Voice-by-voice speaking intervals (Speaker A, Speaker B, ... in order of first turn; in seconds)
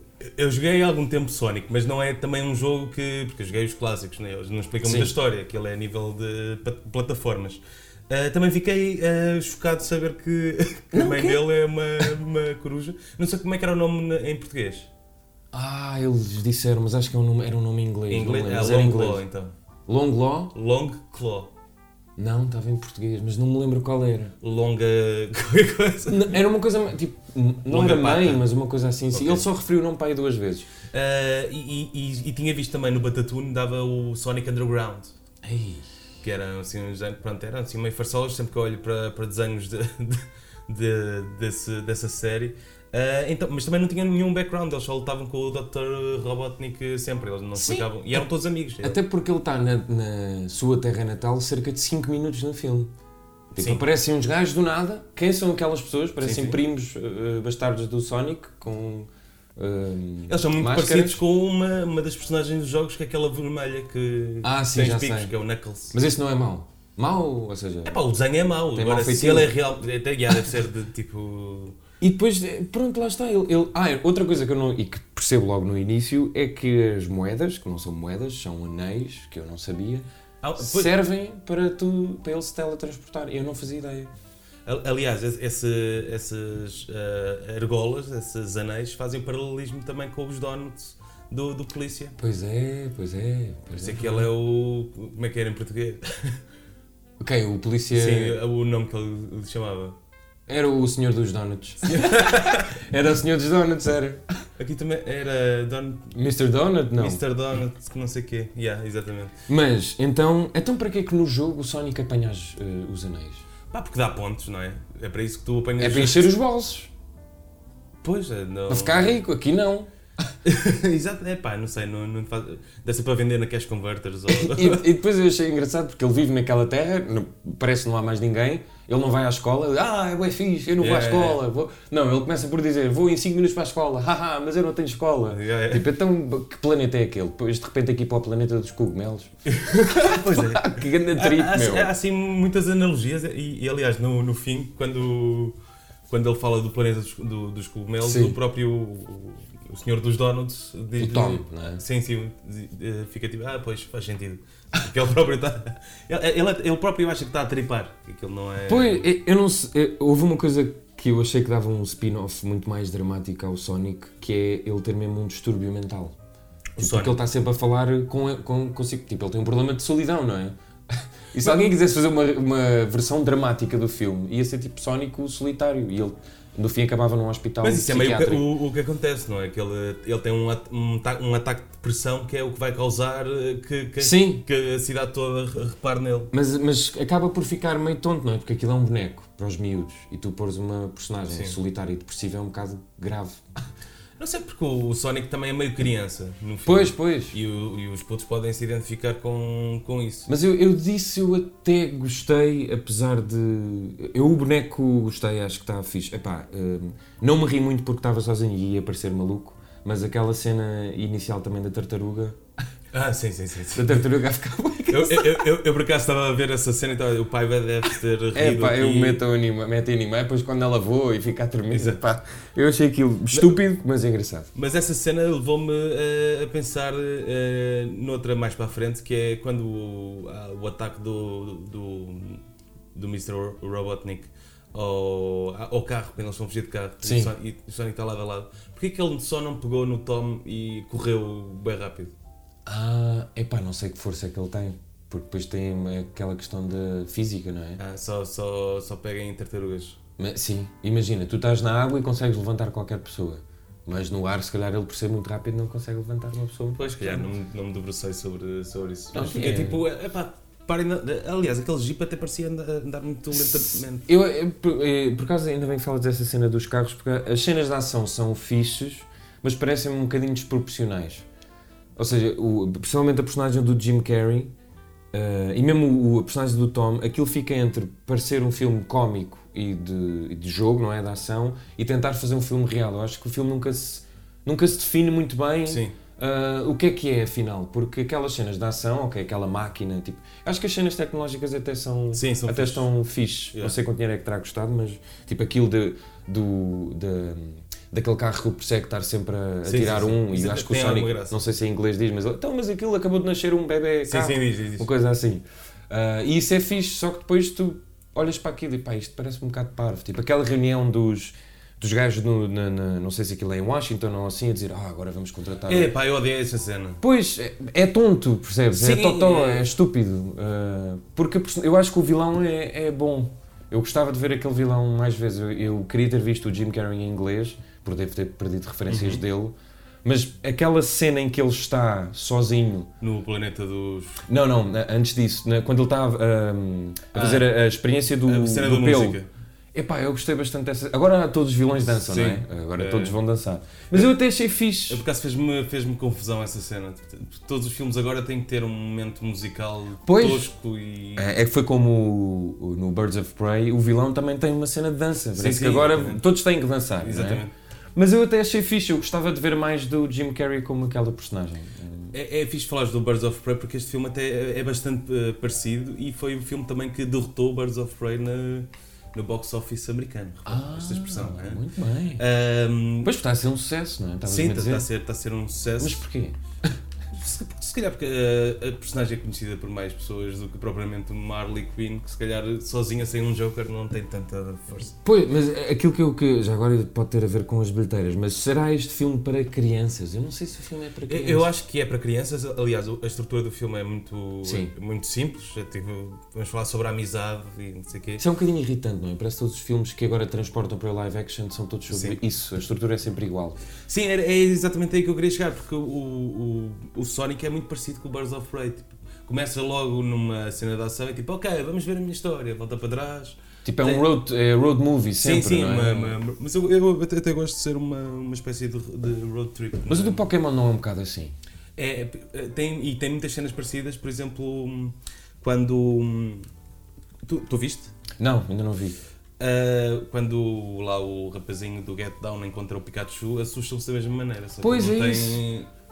Speaker A: 0.4-14.9, 18.1-19.5, 20.5-21.5, 24.4-26.4, 27.7-28.4, 29.1-29.4, 30.9-35.1, 36.2-49.0, 53.6-53.8, 56.2-56.6, 60.3-66.0, 67.8-71.8, 80.4-81.0, 84.7-92.2, 93.7-96.4, 97.9-100.0, 101.8-102.7, 104.6-106.1, 107.0-109.3, 113.7-116.3, 118.0-119.2, 120.4-124.8, 130.8-131.4, 135.3-135.9, 139.5-145.6, 146.1-159.0, 166.8-167.2, 177.6-186.3, 191.3-191.6, 194.2-200.3, 212.9-214.0, 214.9-219.2, 221.7-222.0, 223.3-223.6, 224.6-232.4, 232.9-242.1, 247.8-250.0, 256.8-264.1, 285.7-285.9, 292.1-292.9, 299.6-301.4, 304.1-304.9, 315.7-317.0, 318.8-319.7, 328.9-329.2, 333.0-334.2, 337.1-337.5, 338.2-339.3, 341.9-343.2, 344.9-351.3, 355.4-356.2, 357.0-357.5, 362.1-371.6, 372.2-373.1, 374.2-376.0, 377.1-384.9, 391.1-398.2, 401.9-402.2, 403.9-414.1, 415.2-420.2, 421.8-426.5, 427.2-427.9, 429.4-435.7
Speaker B: 4.8-5.1, 10.9-11.4, 15.5-19.2, 19.9-20.5, 22.2-24.4, 26.1-30.7, 35.4-35.9, 47.5-48.2, 48.8-52.9, 53.5-61.2, 64.4-65.3, 65.9-68.0, 68.7-69.5, 72.0-80.1, 80.6-84.1, 92.2-94.3, 97.2-98.4, 100.5-104.2, 106.1-107.2, 109.5-113.5, 115.8-116.9, 118.7-119.9, 124.3-139.3, 139.8-141.9, 148.0-148.4, 151.0-151.8, 158.7-166.2, 166.8-178.5, 184.0-184.4, 186.3-193.4, 196.7-197.4, 200.3-212.4, 213.7-215.5, 218.3-224.5, 237.0-237.3, 242.7-247.8, 250.2-257.3, 259.1-259.8, 263.4-271.2, 272.0-274.5, 275.1-315.9, 317.0-332.9, 334.3-339.2, 339.7-345.0, 350.1-350.5, 351.2-357.4, 358.0-362.1, 370.5-372.2, 373.1-374.9, 375.8-376.4, 385.0-391.5, 394.4-394.7, 398.2-403.6, 413.6-416.2, 419.9-421.4, 428.2-429.0, 434.6-435.4